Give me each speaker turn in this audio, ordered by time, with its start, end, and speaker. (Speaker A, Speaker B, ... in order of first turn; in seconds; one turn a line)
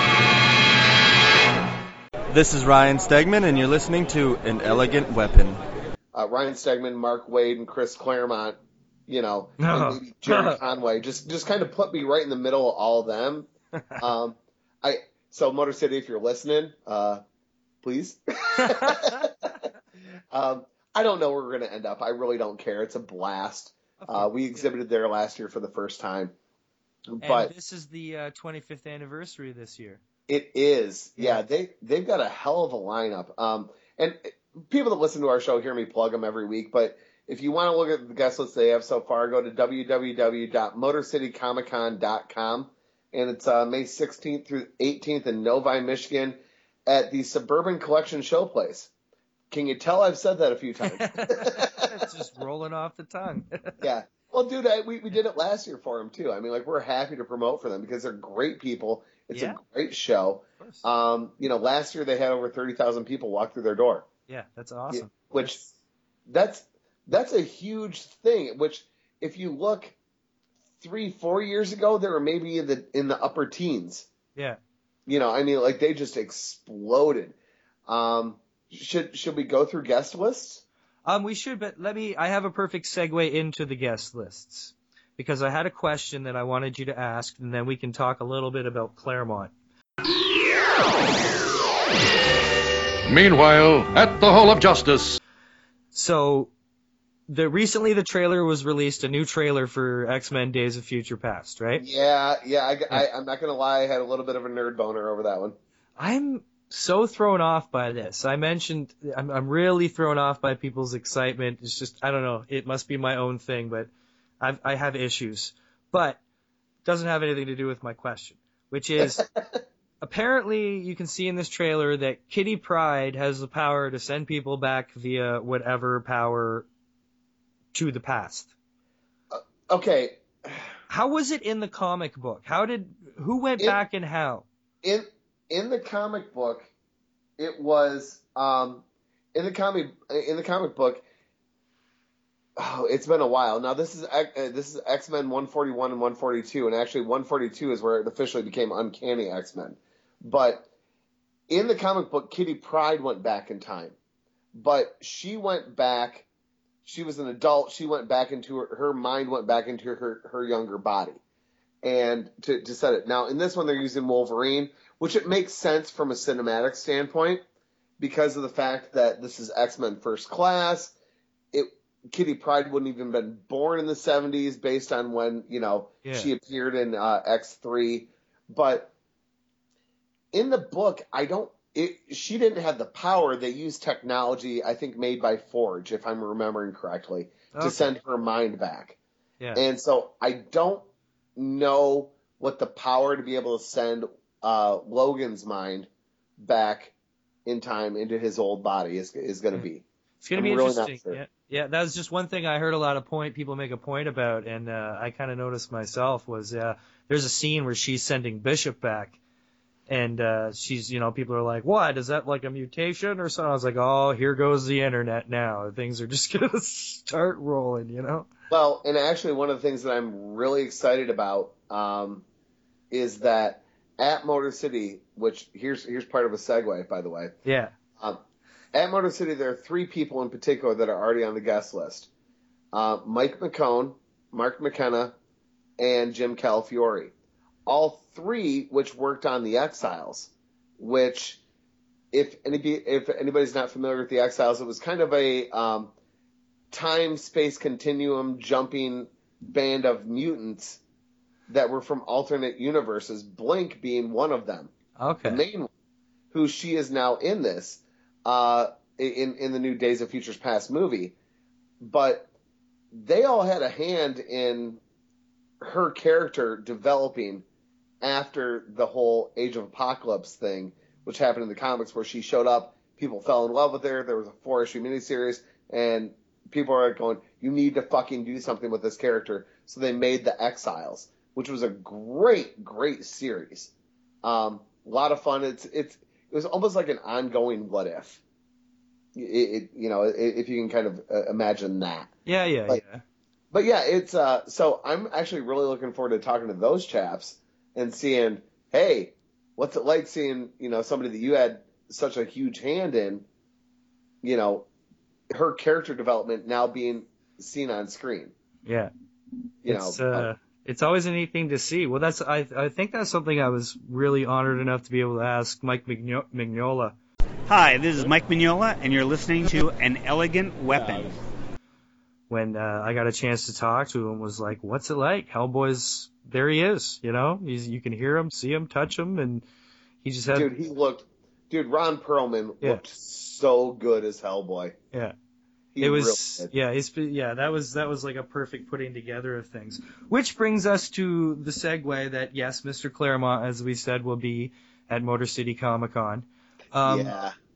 Speaker A: 2.3-5.6
Speaker B: 6.1-17.2
Speaker C: 9.6-10.6
Speaker B: 17.8-19.5
Speaker C: 18.5-19.2
Speaker B: 20.3-26.3
Speaker C: 24.0-24.6
Speaker B: 27.1-27.5
Speaker C: 27.2-30.0
Speaker B: 30.3-48.9
Speaker C: 31.2-31.4
Speaker B: 49.5-52.1
Speaker C: 50.8-53.7
Speaker B: 53.8-64.0
Speaker C: 59.3-59.6
Speaker C: 64.3-65.7
Speaker B: 64.9-65.6
Speaker B: 66.3-69.9
Speaker B: 70.8-74.1
Speaker B: 75.1-77.3
Speaker B: 77.9-80.6
Speaker C: 81.0-89.5
Speaker D: 93.1-95.2
Speaker C: 95.9-96.5
Speaker C: 97.3-101.8
Speaker B: 101.8-105.5
Speaker C: 106.0-113.9
Speaker C: 114.4-116.2
Speaker C: 116.8-119.2
Speaker B: 119.0-119.6
Speaker C: 120.0-126.7
Speaker C: 127.7-128.5
Speaker B: 129.3-130.7
Speaker C: 130.9-134.4
Speaker B: 134.8-136.7
Speaker B: 137.4-141.0
Speaker B: 142.6-150.7
Speaker B: 151.5-153.9
Speaker B: 154.5-156.2
Speaker B: 156.8-161.2
Speaker B: 161.8-167.4
Speaker B: 168.0-170.9
Speaker B: 171.5-178.9
Speaker C: 176.0-176.3
Speaker B: 180.3-189.0
Speaker C: 187.5-187.9
Speaker B: 189.5-190.8
Speaker B: 191.3-196.9
Speaker B: 197.4-201.2
Speaker C: 200.2-209.2
Speaker C: 209.9-218.3
Speaker B: 218.5-222.2
Speaker B: 222.9-227.3
Speaker C: 227.4-227.7
Speaker B: 228.7-232.1
Speaker B: 232.7-235.1
Speaker B: 235.8-237.1
Speaker B: 237.7-241.4
Speaker B: 242.1-245.9
Speaker B: 246.7-250.8
Speaker B: 251.5-254.7
Speaker C: 255.0-255.4
Speaker B: 255.2-255.7
Speaker B: 256.3-261.1
Speaker B: 261.8-262.3
Speaker B: 262.9-264.8
Speaker B: 265.6-267.4
Speaker B: 268.0-283.7
Speaker B: 284.2-288.2
Speaker B: 289.1-292.1
Speaker C: 292.2-293.0
Speaker B: 293.5-303.2
Speaker B: 304.2-304.7
Speaker B: 305.3-308.3
Speaker C: 308.6-308.9
Speaker B: 309.6-310.3
Speaker C: 309.7-316.9
Speaker E: 317.5-321.1
Speaker C: 322.3-329.4
Speaker C: 330.0-330.5
Speaker B: 330.3-334.8
Speaker B: 335.7-336.5
Speaker C: 335.8-347.1
Speaker B: 346.8-347.3